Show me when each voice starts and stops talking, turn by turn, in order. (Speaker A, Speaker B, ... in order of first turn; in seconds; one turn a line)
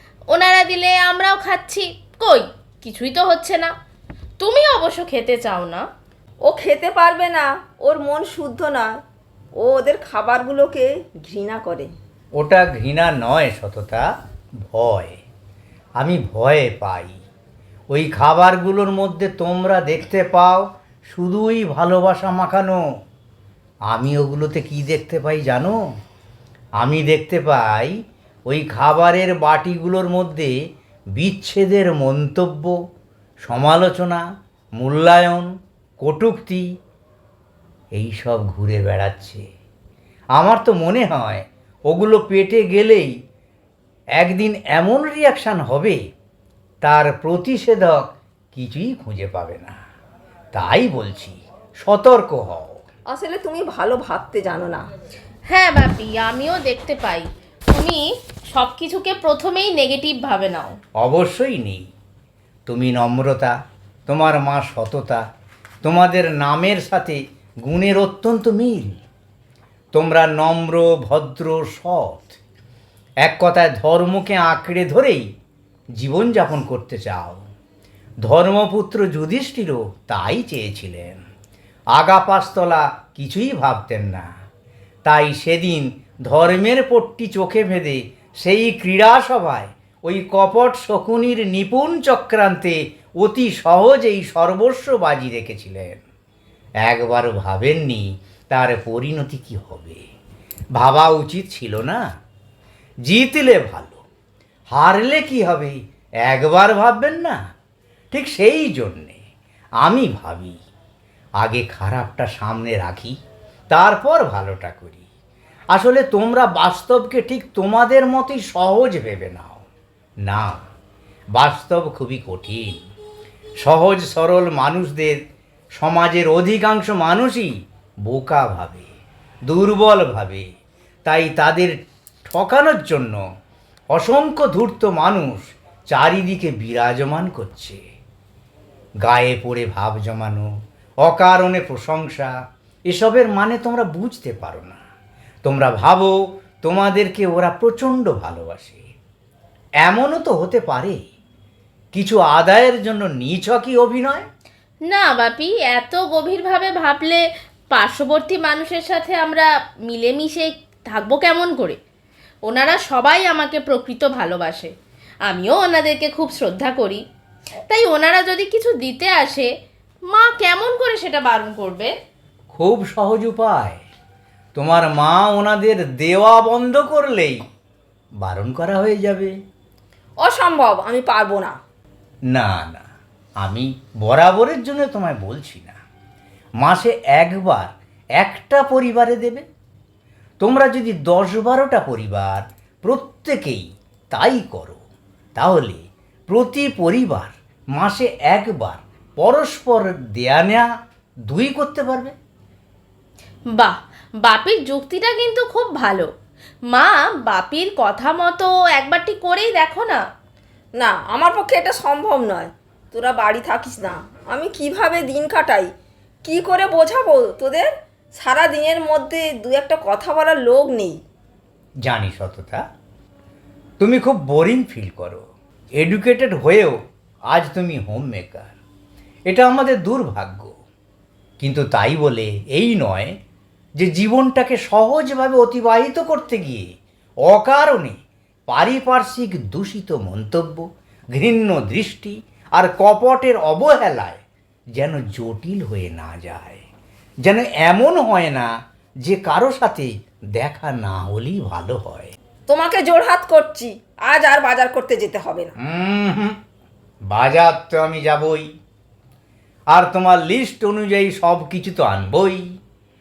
Speaker A: 0.3-3.7
Speaker A: 4.4-5.8
Speaker B: 6.4-9.0
Speaker B: 9.6-11.9
Speaker C: 12.4-14.1
Speaker C: 14.7-15.2
Speaker C: 16.0-17.2
Speaker C: 17.9-22.8
Speaker C: 23.9-25.8
Speaker C: 26.8-27.9
Speaker C: 28.5-30.5
Speaker C: 31.2-32.8
Speaker C: 33.4-34.2
Speaker C: 34.8-36.7
Speaker C: 38.0-39.4
Speaker C: 40.4-43.1
Speaker C: 44.2-46.0
Speaker C: 46.8-49.8
Speaker C: 50.5-52.8
Speaker B: 53.1-54.9
Speaker A: 55.5-60.8
Speaker C: 61.0-61.8
Speaker C: 62.7-63.5
Speaker C: 64.1-65.2
Speaker C: 65.8-69.0
Speaker C: 69.9-72.4
Speaker C: 73.2-75.2
Speaker C: 76.0-77.5
Speaker C: 78.2-81.2
Speaker C: 82.0-84.3
Speaker C: 85.1-96.0
Speaker C: 96.8-100.0
Speaker C: 100.8-102.0
Speaker C: 103.1-104.0
Speaker C: 104.7-107.4
Speaker C: 108.1-109.2
Speaker C: 109.8-110.6
Speaker C: 111.4-113.2
Speaker C: 113.7-115.0
Speaker C: 115.7-119.7
Speaker C: 120.3-120.6
Speaker C: 121.4-122.8
Speaker C: 123.6-125.2
Speaker C: 125.8-127.5
Speaker C: 128.1-128.9
Speaker C: 129.5-130.5
Speaker C: 131.1-133.2
Speaker C: 133.9-137.8
Speaker C: 139.0-140.5
Speaker C: 141.1-142.3
Speaker C: 142.9-144.8
Speaker C: 145.4-148.8
Speaker C: 149.8-151.0
Speaker C: 151.9-154.3
Speaker A: 154.9-161.8
Speaker A: 162.5-164.7
Speaker A: 165.2-167.0
Speaker A: 167.7-169.5
Speaker A: 170.1-171.9
Speaker C: 172.5-173.8
Speaker C: 174.6-177.4
Speaker C: 178.2-179.3
Speaker B: 180.2-181.6
Speaker C: 182.3-182.9
Speaker C: 183.4-185.8
Speaker C: 186.6-189.4
Speaker C: 190.4-194.8
Speaker C: 195.4-200.7
Speaker C: 201.3-202.2
Speaker A: 203.6-206.1
Speaker A: 206.7-210.1
Speaker B: 210.8-215.7
Speaker B: 216.2-221.0
Speaker C: 221.8-222.6
Speaker C: 223.8-225.2
Speaker C: 225.8-226.8
Speaker C: 227.3-228.5
Speaker C: 229.3-230.6
Speaker C: 231.4-233.1
Speaker C: 233.8-236.7
Speaker C: 237.3-244.2
Speaker C: 244.8-246.6
Speaker C: 247.2-248.5
Speaker C: 249.1-252.1
Speaker B: 252.5-255.5
Speaker C: 255.6-256.4
Speaker C: 257.1-258.5
Speaker C: 259.7-262.4